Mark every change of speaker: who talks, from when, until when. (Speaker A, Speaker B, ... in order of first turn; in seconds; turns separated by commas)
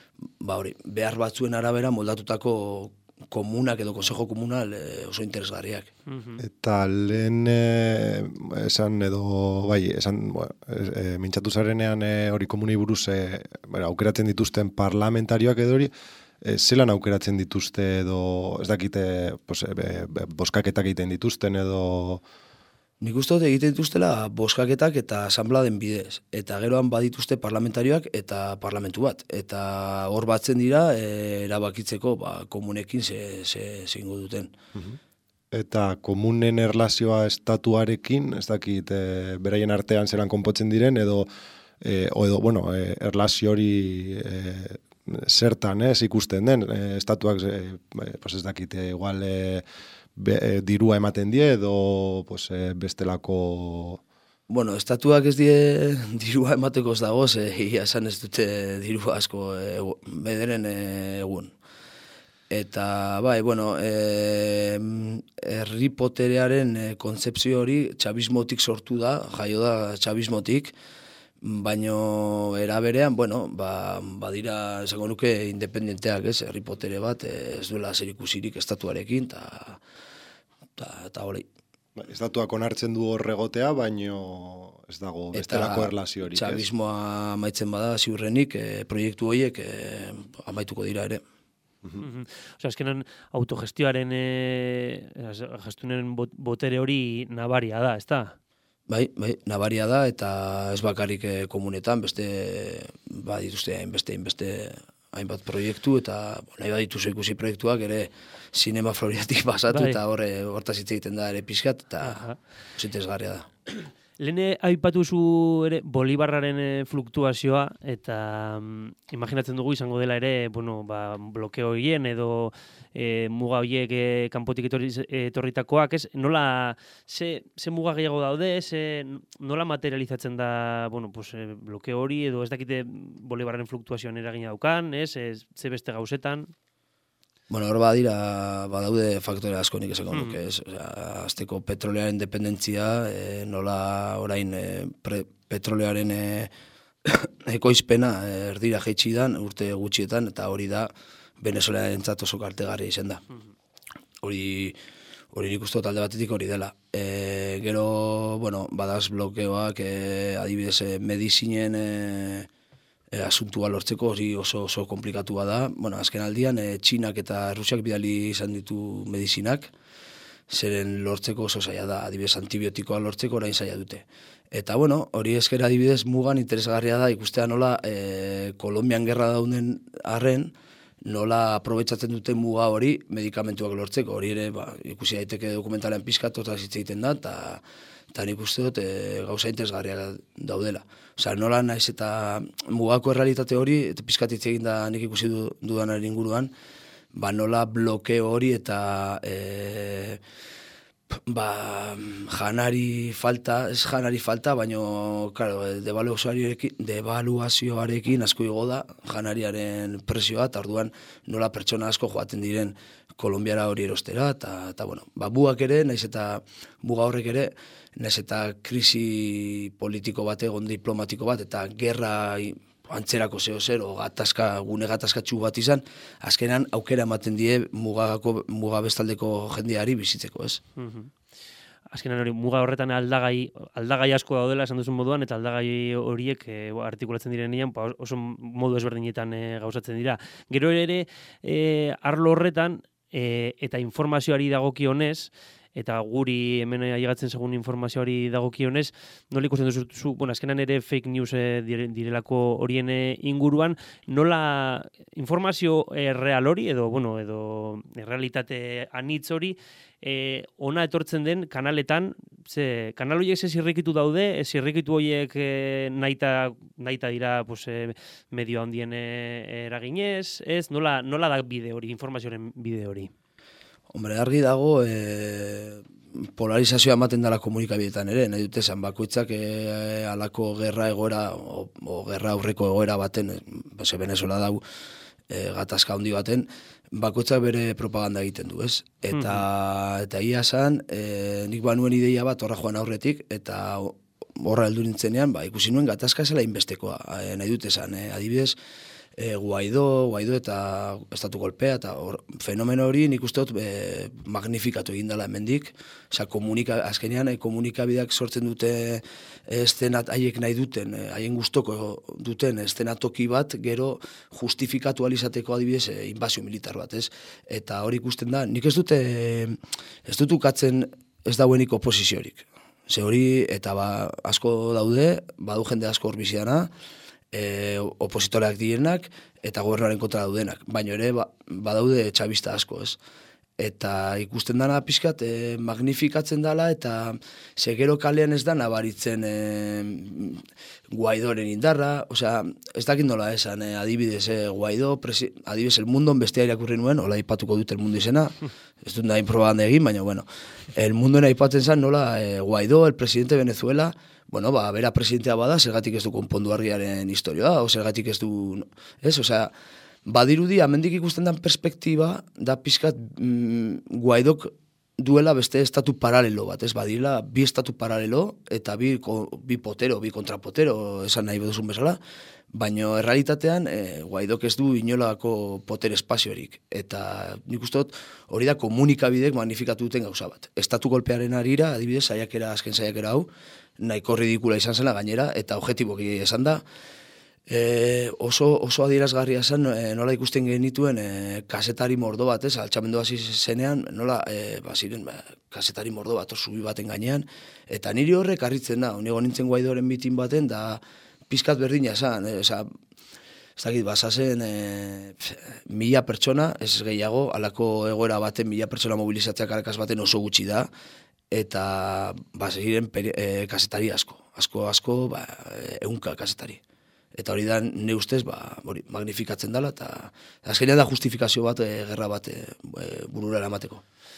Speaker A: 0.4-5.9, Speaker B: 6.1-6.4, Speaker C: 6.4-15.9, Speaker C: 16.4-22.2, Speaker A: 23.0-34.5, Speaker C: 35.5-41.3, Speaker C: 41.8-49.6, Speaker C: 50.1-54.0, Speaker A: 54.5-61.5, Speaker A: 62.5-70.7, Speaker A: 71.4-79.8, Speaker A: 80.8-81.5, Speaker C: 82.0-86.6, Speaker A: 85.3-91.2, Speaker B: 92.0-98.3, Speaker A: 98.9-112.2, Speaker B: 109.7-110.0, Speaker B: 112.0-112.4, Speaker A: 112.8-113.5, Speaker B: 114.2-136.5, Speaker A: 137.5-146.5, Speaker B: 140.1-140.4, Speaker A: 147.1-153.2, Speaker A: 154.2-154.8, Speaker A: 155.3-162.5, Speaker A: 163.1-169.7, Speaker A: 170.5-180.5, Speaker A: 181.0-187.6, Speaker A: 188.1-196.5, Speaker A: 197.1-200.2, Speaker A: 201.3-230.6, Speaker B: 230.8-231.1, Speaker B: 231.9-273.1, Speaker A: 273.9-284.6, Speaker A: 285.3-298.5, Speaker B: 289.1-289.4, Speaker A: 299.2-326.7, Speaker A: 327.3-333.0, Speaker A: 333.6-359.5, Speaker A: 360.1-372.0, Speaker A: 372.5-383.3, Speaker A: 383.8-386.6, Speaker A: 387.5-402.7, Speaker A: 403.6-410.7, Speaker A: 411.3-416.6, Speaker A: 417.1-423.8